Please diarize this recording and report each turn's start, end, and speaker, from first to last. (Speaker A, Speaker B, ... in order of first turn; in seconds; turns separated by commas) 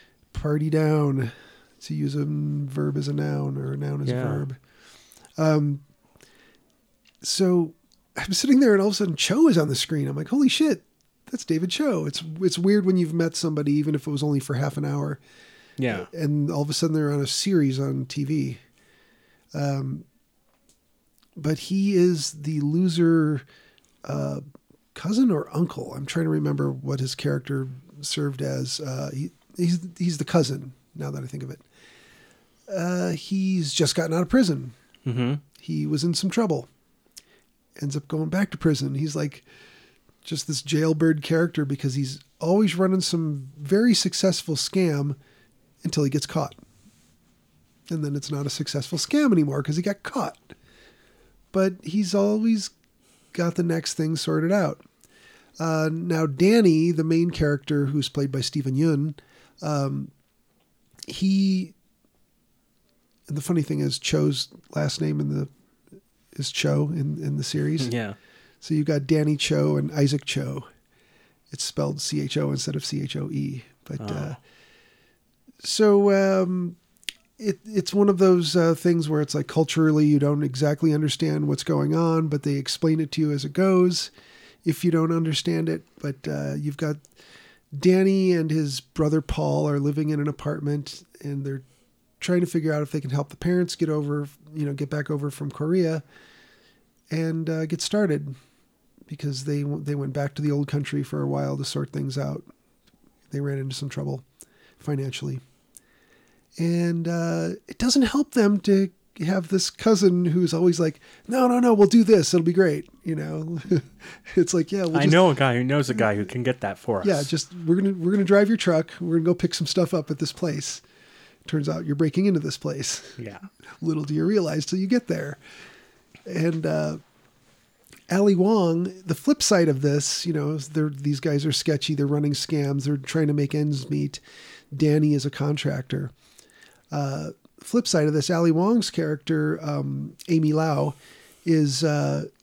Speaker A: 0.3-4.6, Speaker B: 4.0-4.5, Speaker A: 5.4-5.8, Speaker A: 7.2-15.2, Speaker B: 15.8-16.1, Speaker A: 15.9-18.6, Speaker A: 19.5-20.1, Speaker A: 21.4-23.4, Speaker A: 24.1-24.4, Speaker A: 24.9-31.6, Speaker A: 32.7-34.8, Speaker B: 35.0-35.4, Speaker A: 35.6-36.7, Speaker A: 37.8-39.5, Speaker A: 40.2-45.2, Speaker A: 45.8-46.6, Speaker A: 47.9-50.5, Speaker A: 51.5-52.7, Speaker A: 53.3-54.8, Speaker A: 55.6-60.1, Speaker A: 61.1-61.7, Speaker A: 63.3-65.5, Speaker A: 66.3-67.9, Speaker B: 67.8-68.2, Speaker A: 68.6-70.7, Speaker A: 71.5-74.4, Speaker B: 74.0-74.4, Speaker A: 75.6-76.8, Speaker A: 77.4-84.1, Speaker A: 84.6-87.0, Speaker A: 87.7-91.7, Speaker A: 92.2-96.0, Speaker A: 97.1-98.4, Speaker A: 99.1-102.5, Speaker A: 103.3-104.2, Speaker A: 104.8-105.4, Speaker A: 106.6-115.2, Speaker B: 114.9-117.3, Speaker A: 117.0-120.8, Speaker A: 121.5-123.2, Speaker B: 123.2-123.5, Speaker A: 123.8-125.4, Speaker A: 126.2-127.0, Speaker A: 128.1-136.1, Speaker A: 136.9-142.3